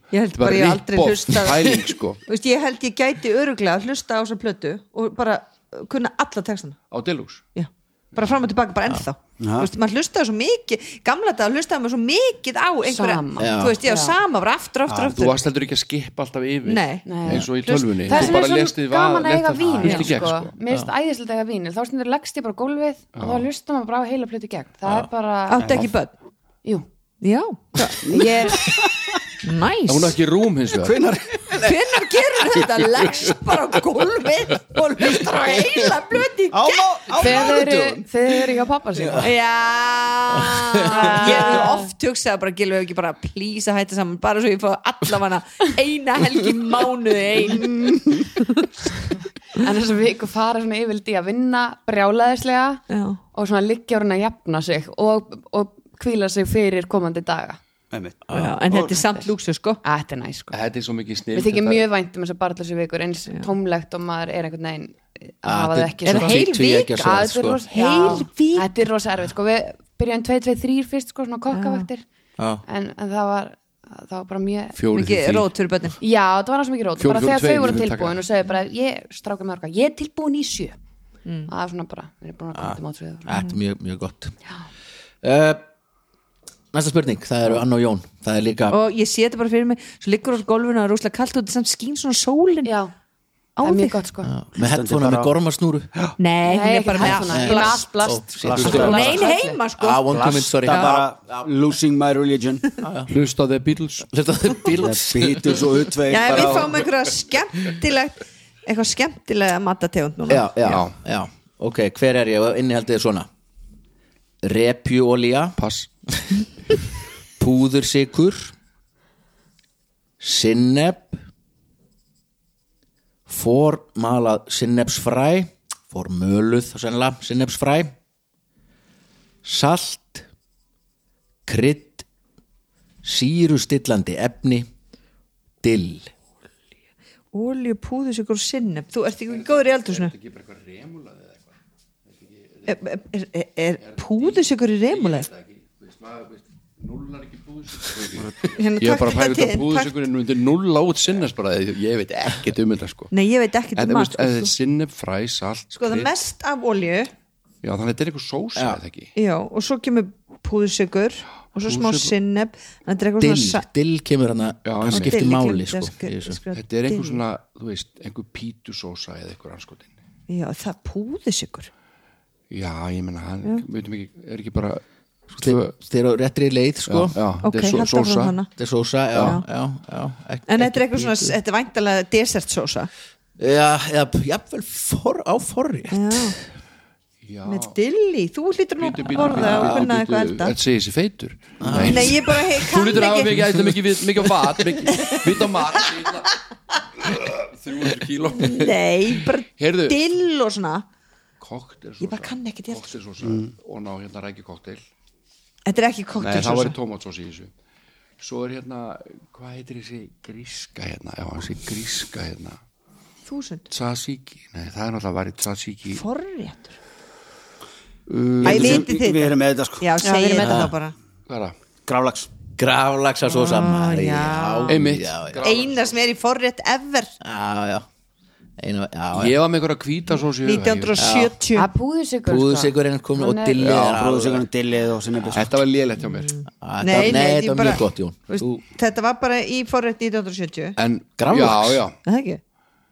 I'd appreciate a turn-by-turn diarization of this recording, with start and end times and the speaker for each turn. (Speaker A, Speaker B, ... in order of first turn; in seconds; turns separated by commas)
Speaker A: 0.1-6.8, Speaker B: 0.3-2.2, Speaker B: 6.9-7.4, Speaker A: 7.5-15.3, Speaker C: 9.4-9.7, Speaker D: 12.8-14.2, Speaker E: 13.4-13.8, Speaker C: 14.8-15.2, Speaker B: 15.1-20.5, Speaker A: 16.6-18.4, Speaker D: 17.0-25.8, Speaker A: 19.8-20.1, Speaker B: 23.1-23.5, Speaker A: 25.5-26.1, Speaker C: 25.6-25.9, Speaker A: 27.2-28.7, Speaker C: 28.0-29.1, Speaker D: 28.1-28.6, Speaker A: 29.4-30.2, Speaker B: 29.9-31.1, Speaker C: 30.7-31.6, Speaker A: 31.5-37.5, Speaker C: 36.5-38.0, Speaker D: 37.1-39.3, Speaker E: 39.0-39.3, Speaker A: 39.2-48.7, Speaker E: 40.3-40.9, Speaker D: 40.8-41.9, Speaker D: 49.5-57.6, Speaker A: 52.9-53.2, Speaker C: 57.9-59.0, Speaker E: 58.3-58.6, Speaker A: 58.3-59.8, Speaker D: 58.9-59.3, Speaker D: 59.8-60.5, Speaker B: 60.5-61.9, Speaker D: 61.3-72.0, Speaker E: 65.4-67.6, Speaker A: 66.0-67.0, Speaker A: 67.7-68.7, Speaker A: 71.5-71.9, Speaker E: 72.4-72.6, Speaker D: 72.6-74.8, Speaker B: 74.8-75.5, Speaker A: 74.9-76.0, Speaker D: 76.0-80.8, Speaker B: 77.0-78.2, Speaker D: 81.5-83.4, Speaker E: 82.5-84.3, Speaker E: 85.2-85.6, Speaker E: 86.7-88.8, Speaker A: 88.7-92.7, Speaker D: 92.6-92.9, Speaker A: 93.6-94.0, Speaker D: 93.6-94.3, Speaker E: 94.2-95.9, Speaker C: 94.6-95.3, Speaker A: 96.2-97.9, Speaker D: 96.4-99.6, Speaker E: 97.2-99.1, Speaker C: 98.4-99.2, Speaker A: 98.6-101.0, Speaker E: 99.8-101.5, Speaker C: 100.1-102.8, Speaker E: 102.8-103.1, Speaker B: 103.1-104.1, Speaker E: 104.1-106.7, Speaker C: 104.7-106.8, Speaker A: 106.1-110.5, Speaker E: 110.3-113.3, Speaker B: 110.6-110.9, Speaker E: 114.4-115.6, Speaker B: 115.6-115.9, Speaker E: 117.4-118.5, Speaker E: 120.2-121.2, Speaker E: 123.3-127.9, Speaker E: 129.4-130.3, Speaker E: 131.4-132.1, Speaker E: 133.0-134.7, Speaker E: 135.6-136.1, Speaker A: 137.3-140.1, Speaker B: 139.3-141.5, Speaker B: 142.1-142.8, Speaker A: 142.7-145.3, Speaker B: 143.8-153.1, Speaker A: 148.5-149.9, Speaker A: 153.1-154.5, Speaker B: 153.7-156.1, Speaker A: 155.7-157.1, Speaker B: 157.6-159.1, Speaker E: 158.5-158.8, Speaker A: 159.1-163.6, Speaker B: 161.6-162.2, Speaker E: 163.2-166.4, Speaker B: 164.6-165.2, Speaker A: 164.8-167.2, Speaker B: 166.5-170.0, Speaker A: 170.3-171.7, Speaker B: 172.5-175.7, Speaker E: 175.4-177.2, Speaker B: 176.9-178.4, Speaker A: 177.4-178.5, Speaker E: 178.6-181.4, Speaker A: 179.2-179.4, Speaker A: 180.5-182.9, Speaker E: 183.4-186.3, Speaker A: 185.9-186.4, Speaker B: 187.2-187.8, Speaker A: 187.4-190.6, Speaker B: 188.8-196.3, Speaker E: 189.4-189.8, Speaker E: 191.6-192.2, Speaker A: 191.7-193.4, Speaker A: 194.8-195.5, Speaker B: 197.0-200.0, Speaker A: 198.3-200.8, Speaker B: 201.4-204.8, Speaker A: 202.0-202.9, Speaker C: 203.2-203.5, Speaker A: 205.7-206.7, Speaker C: 206.2-206.7, Speaker B: 206.2-207.5, Speaker B: 208.2-212.6, Speaker A: 213.2-213.7, Speaker B: 213.7-216.0, Speaker A: 215.9-216.7, Speaker B: 218.1-218.9, Speaker C: 218.4-219.9, Speaker A: 218.4-220.9, Speaker D: 220.0-220.7, Speaker E: 220.3-220.8, Speaker B: 221.3-221.5, Speaker C: 221.8-222.3, Speaker E: 222.6-225.5, Speaker A: 223.3-224.8, Speaker B: 224.7-226.0, Speaker A: 225.4-227.1, Speaker E: 227.2-227.8, Speaker E: 228.6-229.4, Speaker B: 229.1-231.1, Speaker A: 230.4-231.7, Speaker E: 231.0-231.3, Speaker D: 231.5-233.6, Speaker E: 232.2-234.5, Speaker C: 233.6-235.5, Speaker B: 235.3-236.3, Speaker A: 236.1-240.7, Speaker E: 236.6-238.6, Speaker B: 240.8-241.9, Speaker E: 241.2-241.8, Speaker A: 242.0-242.4